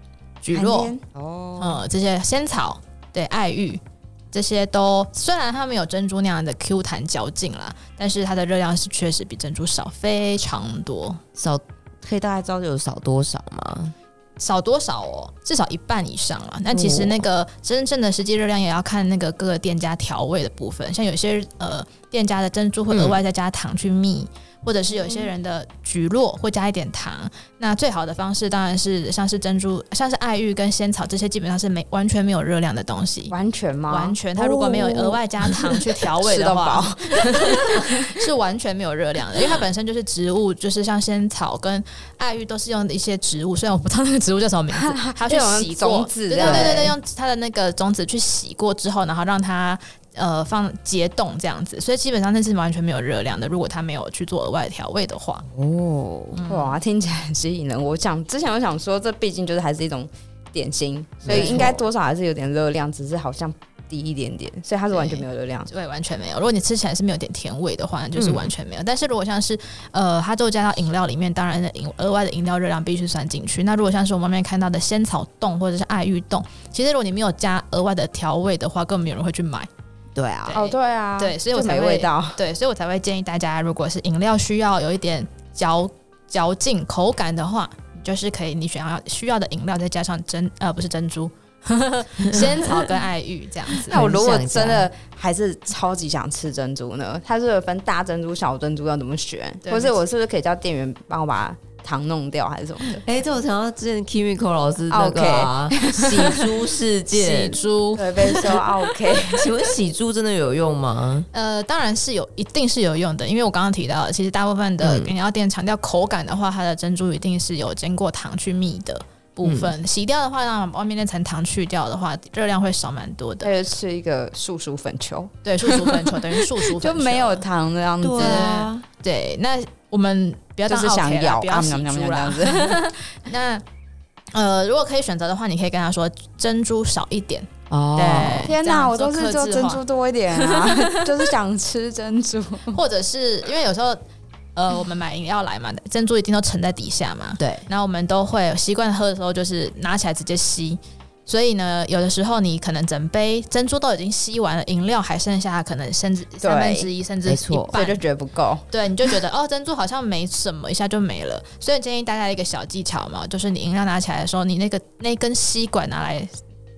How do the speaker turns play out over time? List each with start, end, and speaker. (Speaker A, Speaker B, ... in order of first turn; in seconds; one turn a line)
Speaker A: 0.4-0.9
Speaker B: 0.5-1.0
Speaker C: 1.1-1.8
Speaker A: 1.6-3.8
Speaker A: 4.3-11.2
Speaker C: 11.3-13.9
Speaker A: 14.4-33.3
Speaker C: 16.7-17.2
Speaker C: 22.9-23.2
Speaker B: 33.3-34.3
Speaker A: 33.9-55.5
Speaker C: 34.4-35.2
Speaker B: 36.0-38.1
Speaker B: 44.7-47.0
Speaker C: 46.4-46.8
Speaker C: 55.5-56.4
Speaker A: 56.3-56.8
Speaker B: 56.5-65.7
Speaker C: 61.2-61.9
Speaker A: 61.3-61.7
Speaker A: 64.9-79.7
Speaker C: 68.2-68.5
Speaker C: 80.2-80.6
Speaker A: 80.5-94.0
Speaker B: 80.5-82.4
Speaker C: 92.2-92.5
Speaker C: 93.9-94.9
Speaker B: 93.9-103.0
Speaker A: 99.6-100.0
Speaker C: 103.0-107.6
Speaker B: 104.9-106.4
Speaker A: 107.1-108.4
Speaker B: 107.9-109.5
Speaker C: 108.2-108.5
Speaker C: 109.2-111.3
Speaker A: 111.3-123.5
Speaker C: 114.8-115.1
Speaker C: 119.4-119.7
Speaker B: 123.4-128.5
Speaker A: 125.5-127.5
Speaker C: 128.0-128.9
Speaker A: 128.2-133.6
Speaker B: 130.7-132.8
Speaker A: 134.3-139.8
Speaker C: 137.7-138.6
Speaker B: 138.4-142.8
Speaker A: 140.4-141.1
Speaker A: 142.7-144.0
Speaker A: 144.6-158.0
Speaker C: 147.4-147.7
Speaker B: 156.4-156.9
Speaker C: 157.3-157.8
Speaker B: 157.7-158.7
Speaker A: 158.7-166.3